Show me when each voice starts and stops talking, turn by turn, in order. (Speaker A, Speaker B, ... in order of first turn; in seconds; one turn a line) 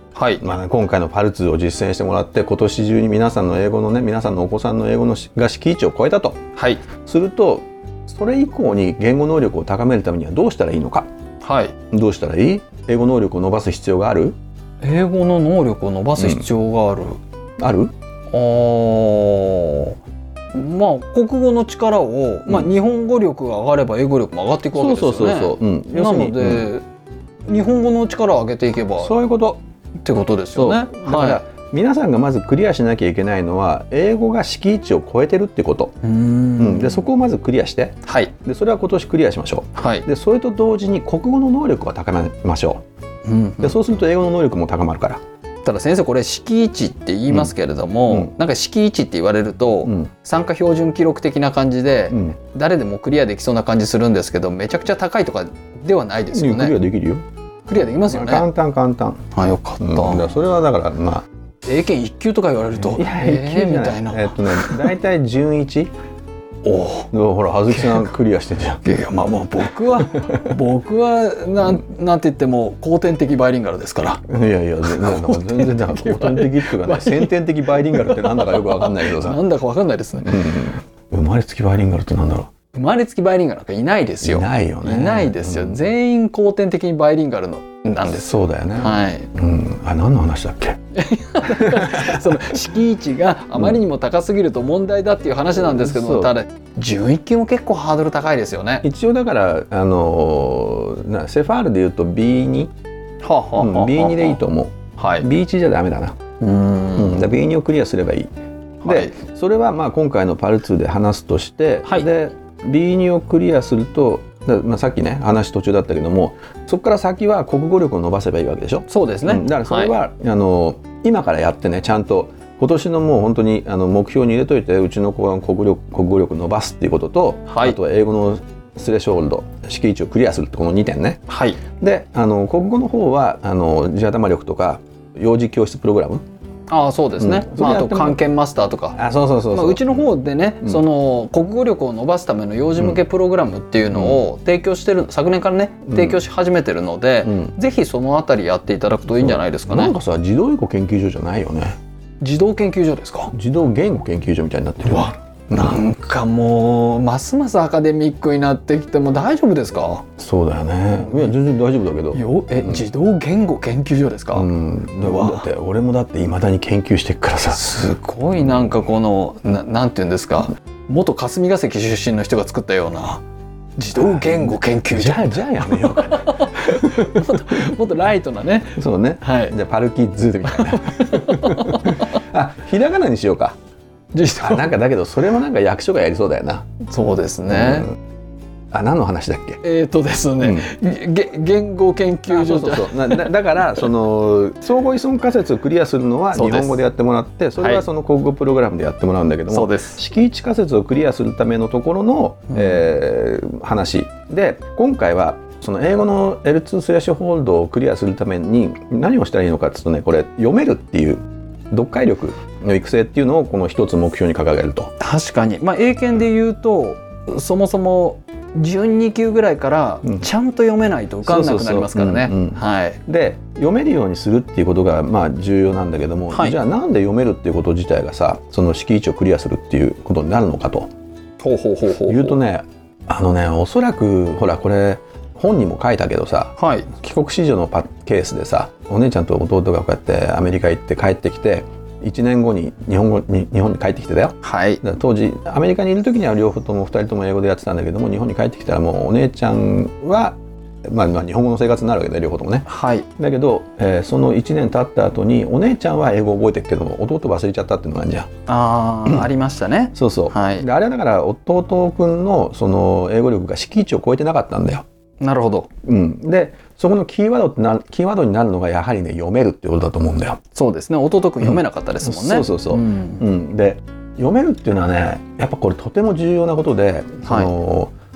Speaker A: 0.1-0.4
Speaker B: 0.4-6.4
Speaker A: 6.6-6.8
Speaker B: 7.0-11.1
Speaker A: 11.4-11.7
Speaker B: 11.9-14.4
Speaker A: 14.8-17.2
Speaker B: 16.2-16.5
Speaker B: 17.6-17.9
Speaker A: 18.3-19.9
Speaker A: 20.5-26.8
Speaker B: 24.7-26.7
Speaker A: 27.5-29.1
Speaker B: 29.0-29.6
Speaker A: 30.0-31.4
Speaker B: 30.5-36.0
Speaker A: 36.0-37.0
Speaker B: 36.6-42.8
Speaker A: 38.0-38.3
Speaker A: 39.8-40.0
Speaker A: 43.2-43.7
Speaker B: 43.6-45.2
Speaker A: 45.6-56.7
Speaker B: 47.3-47.5
Speaker B: 48.1-48.3
Speaker B: 49.8-50.1
Speaker B: 52.1-52.4
Speaker B: 56.3-57.2
Speaker A: 57.7-58.4
Speaker B: 58.0-59.2
Speaker A: 59.3-60.2
Speaker B: 59.8-61.2
Speaker A: 61.7-64.3
Speaker B: 62.8-65.9
Speaker A: 66.6-67.1
Speaker B: 67.1-68.9
Speaker A: 68.8-74.2
Speaker B: 70.2-70.5
Speaker B: 74.3-79.4
Speaker A: 75.0-77.3
Speaker A: 78.4-80.3
Speaker B: 80.2-82.5
Speaker A: 82.7-89.2
Speaker B: 84.2-85.8
Speaker B: 88.1-90.8
Speaker A: 91.0-98.8
Speaker B: 91.4-92.6
Speaker B: 93.5-93.8
Speaker B: 95.5-96.3
Speaker B: 98.8-102.7
Speaker A: 103.2-104.4
Speaker B: 103.5-106.2
Speaker A: 105.0-105.2
Speaker A: 106.4-107.2
Speaker B: 106.9-108.3
Speaker B: 108.8-136.2
Speaker A: 118.9-119.9
Speaker A: 127.5-127.8
Speaker A: 131.3-131.6
Speaker A: 136.7-138.9
Speaker B: 137.2-138.2
Speaker B: 138.9-140.1
Speaker A: 139.5-149.9
Speaker B: 142.8-143.0
Speaker B: 143.9-144.2
Speaker B: 145.9-146.2
Speaker B: 147.2-147.5
Speaker B: 149.1-151.8
Speaker A: 152.2-153.3
Speaker B: 153.3-155.8
Speaker A: 155.5-160.0
Speaker B: 160.2-162.9
Speaker A: 162.1-164.4
Speaker B: 164.3-167.8
Speaker A: 165.1-165.4
Speaker A: 167.6-173.2
Speaker B: 168.4-168.6
Speaker A: 173.8-175.2
Speaker B: 174.0-177.7
Speaker A: 176.3-178.7
Speaker B: 178.7-183.6
Speaker A: 179.2-179.5
Speaker A: 184.2-184.5
Speaker B: 184.4-186.7
Speaker A: 186.9-187.9
Speaker B: 187.5-187.9
Speaker B: 188.7-189.6
Speaker A: 189.6-192.9
Speaker B: 190.4-190.7
Speaker B: 192.3-214.9
Speaker A: 196.3-196.7
Speaker A: 199.5-200.0
Speaker A: 215.0-223.0
Speaker B: 221.2-230.9
Speaker A: 231.4-232.3
Speaker B: 232.1-258.3
Speaker A: 236.6-236.8
Speaker A: 244.4-244.8
Speaker A: 252.7-253.0
Speaker A: 258.5-260.6
Speaker B: 259.9-264.8
Speaker A: 265.2-265.7
Speaker B: 265.8-270.4
Speaker A: 270.6-273.2
Speaker B: 271.4-277.9